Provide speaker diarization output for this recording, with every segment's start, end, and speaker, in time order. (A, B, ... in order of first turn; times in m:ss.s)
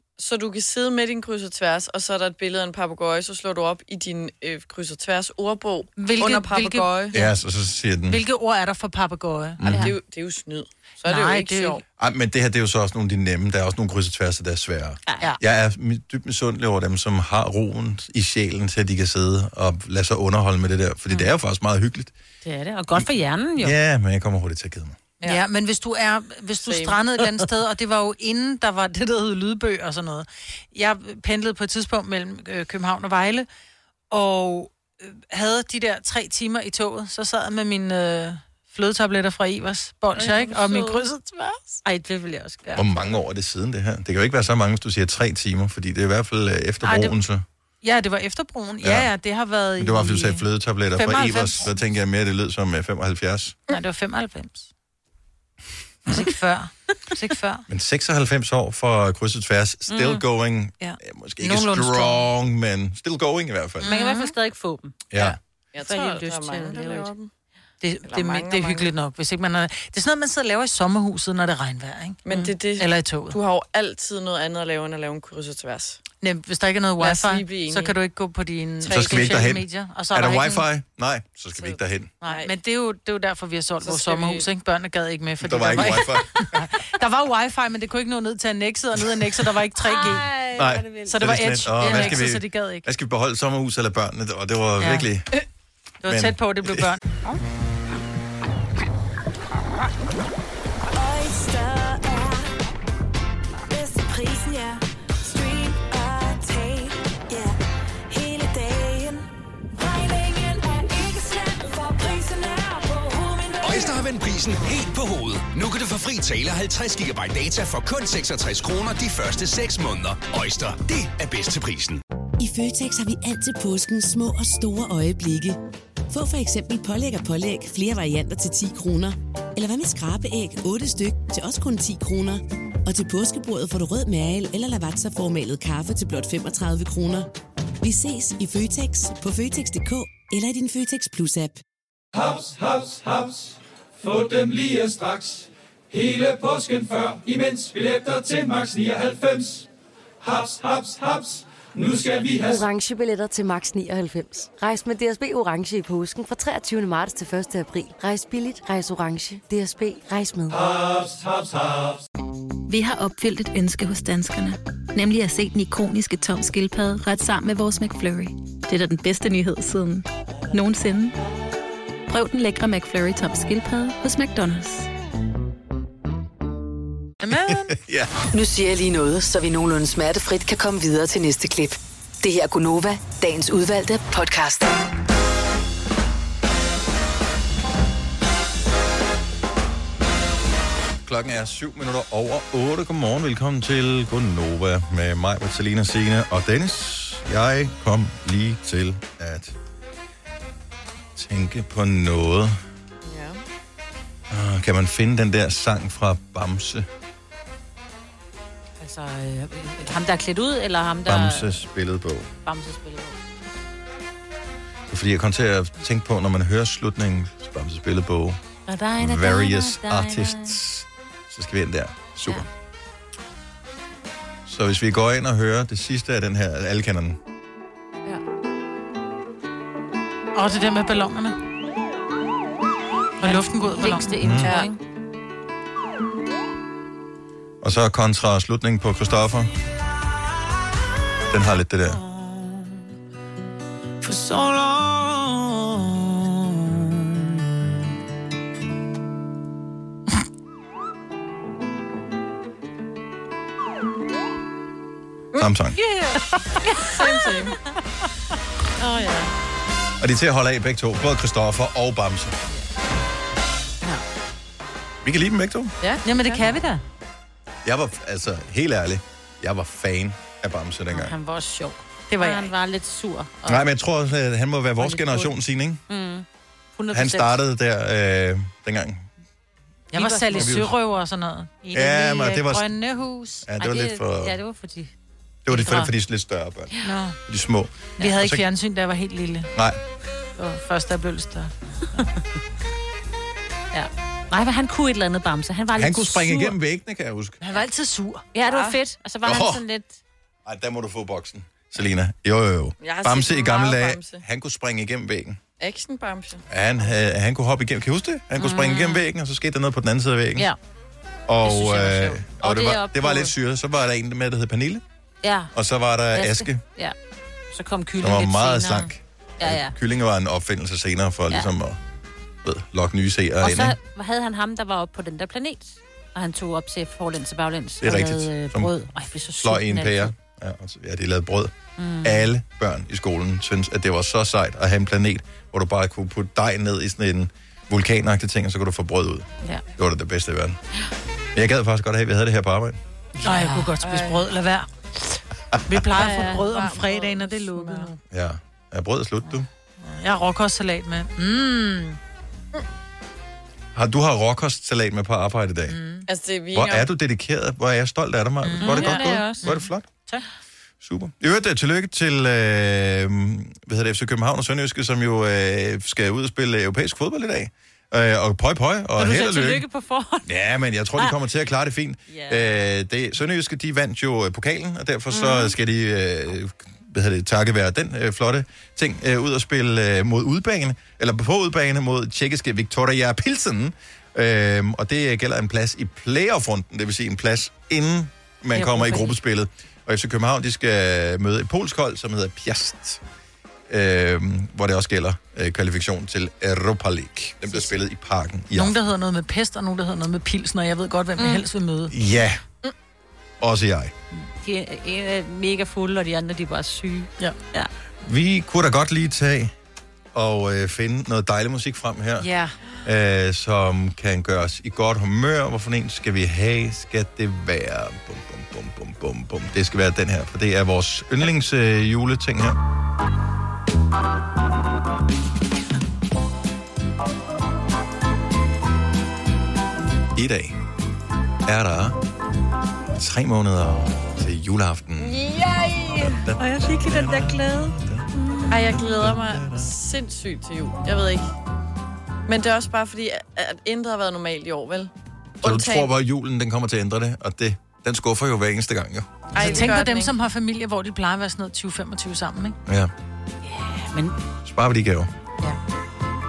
0:00.2-0:07.1 A
0:06.0-0:06.9 B
0:07.1-0:08.2 C
0:08.1-0:09.6 B
0:09.6-0:09.9 C
0:09.6-0:09.9 D
0:09.6-0:11.8 A
0:11.0-0:11.8 B
0:12.0-0:22.1 C
0:15.0-0:15.4 D
0:22.4-0:23.8 D
0:23.6-0:25.0 C
0:25.2-0:33.5 B
0:26.6-0:27.0 A
0:34.1-0:41.8 B
0:40.1-0:41.0 D
0:41.8-0:42.9 D
0:42.7-0:47.4 C
0:46.8-0:47.1 B
0:47.8-0:50.4 B
0:48.8-0:49.1 C
0:49.8-0:53.6 C
0:51.0-0:51.7 B
0:53.7-0:54.7 B
0:56.1-0:57.6 B
0:57.7-1:03.9 C
0:59.9-1:00.2 D
1:00.8-1:02.2 B
1:03.8-1:05.0 D
1:03.8-1:04.3 B
1:05.2-1:07.3 A
1:05.8-1:07.1 D
1:07.8-1:13.4 B
1:08.1-1:08.9 A
1:12.2-1:16.0 A
1:16.2-1:20.6 B
1:17.0-1:17.9 A
1:18.9-1:22.1 C
1:18.9-1:19.2 A
1:21.6-1:22.5 A
1:22.2-1:30.3 B
1:23.8-1:24.5 A
1:25.4-1:26.4 C
1:29.8-1:31.1 D
1:30.5-1:35.3 C
1:31.0-1:32.8 B
1:31.9-1:32.2 D
1:34.8-1:35.1 B
1:36.0-1:37.0 B
1:36.0-1:36.9 C
1:40.9-1:42.6 E
1:43.7-1:47.6 E
1:48.1-1:54.0 E
1:53.6-2:02.0 F
2:02.4-2:05.6 G
2:06.1-2:17.3 G
2:17.8-2:21.6 G
2:22.1-2:29.6 H
2:30.2-2:32.6 H
2:32.4-2:40.7 I
2:40.5-2:42.0 H
2:42.7-2:51.2 J
2:52.1-2:54.9 J
2:57.2-2:57.7 B
2:57.5-2:58.1 C
2:58.3-3:04.7 K
3:11.0-3:19.5 C
3:21.2-3:22.6 C
3:23.0-3:23.4 A
3:24.3-3:26.9 C
3:28.8-3:31.5 D
3:31.0-3:32.3 C
3:32.4-3:33.2 D
3:34.9-3:38.4 C
3:38.7-3:40.6 D
3:39.0-3:42.4 C
3:44.4-3:47.2 C
3:50.3-3:51.4 B
3:53.2-3:54.1 B
3:53.2-3:54.8 D
3:54.2-3:54.5 C
3:54.4-3:54.7 A
3:57.6-3:59.5 C
4:01.3-4:02.0 C
4:04.0-4:05.5 D
4:15.4-4:15.8 C
4:15.8-4:17.0 D
4:16.8-4:17.6 A
4:18.8-4:19.3 D
4:20.0-4:22.4 C
4:25.0-4:25.7 C
4:25.8-4:26.2 A
4:26.0-4:26.8 B
4:27.6-4:31.1 C
4:30.9-4:33.6 D
4:32.1-4:32.5 B
4:33.4-4:35.8 C
4:34.8-4:35.3 D
4:35.9-4:37.4 D
4:36.9-4:39.1 C
4:39.9-4:43.5 B
4:39.9-4:40.6 D
4:40.3-4:40.7 C
4:41.7-4:42.7 C
4:43.4-4:44.4 C
4:43.6-4:44.9 D
4:45.4-4:46.7 C
4:45.5-4:45.9 B
4:46.8-4:47.2 B
4:47.2-4:48.4 C
4:48.0-4:49.5 B
4:50.4-4:52.0 B
4:53.7-4:56.6 D
4:55.7-4:57.4 C
4:57.4-4:58.3 B
4:58.3-5:00.0 D
4:58.4-4:58.8 A
4:59.2-4:59.6 C
5:00.4-5:05.4 C
5:02.8-5:04.2 A
5:05.6-5:06.4 A
5:06.5-5:10.5 C
5:08.4-5:09.1 D
5:11.3-5:14.8 C
5:11.4-5:13.3 D
5:15.2-5:15.5 D
5:15.5-5:16.6 C
5:16.1-5:16.9 D
5:17.5-5:19.7 D
5:18.0-5:21.8 C
5:22.4-5:23.8 C
5:23.4-5:30.1 D
5:27.8-5:28.7 C
5:29.4-5:40.6 C
5:31.8-5:32.3 D
5:41.3-5:42.8 C
5:43.2-5:43.7 D
5:43.2-5:44.7 B
5:43.8-5:44.2 A
5:45.7-5:47.9 B
5:46.0-5:46.5 D
5:46.1-5:47.9 A
5:48.1-5:49.5 C
5:49.8-5:52.0 B
5:53.7-5:55.8 C
5:55.7-5:56.1 B
5:56.1-5:56.9 A
5:56.5-5:59.8 C
5:58.4-6:00.2 B
5:58.6-5:59.5 D
6:00.8-6:09.6 C
6:09.0-6:10.3 D
6:10.2-6:33.0 C
6:12.1-6:12.5 D
6:15.1-6:15.5 D
6:28.6-6:29.1 D
6:28.6-6:28.9 B
6:33.7-6:38.8 C
6:38.5-6:41.9 B
6:41.2-6:41.4 D
6:41.9-6:42.4 C
6:43.4-6:43.9 C
6:44.1-6:47.7 D
6:48.0-6:49.5 C
6:50.1-6:52.3 C
6:52.2-6:52.5 B
6:52.8-7:02.6 C
7:10.2-7:10.6 C
7:11.4-7:12.0 C
7:13.0-7:15.3 C
7:15.9-7:18.1 C
7:16.4-7:17.4 B
7:17.0-7:17.4 D
7:18.5-7:21.3 A
7:18.6-7:19.7 C
7:22.3-7:24.9 A
7:25.4-7:25.9 A
7:25.4-7:29.1 C
7:29.3-7:30.1 A
7:29.4-7:32.6 B
7:32.6-7:32.9 C
7:33.4-7:34.2 D
7:34.4-7:35.1 C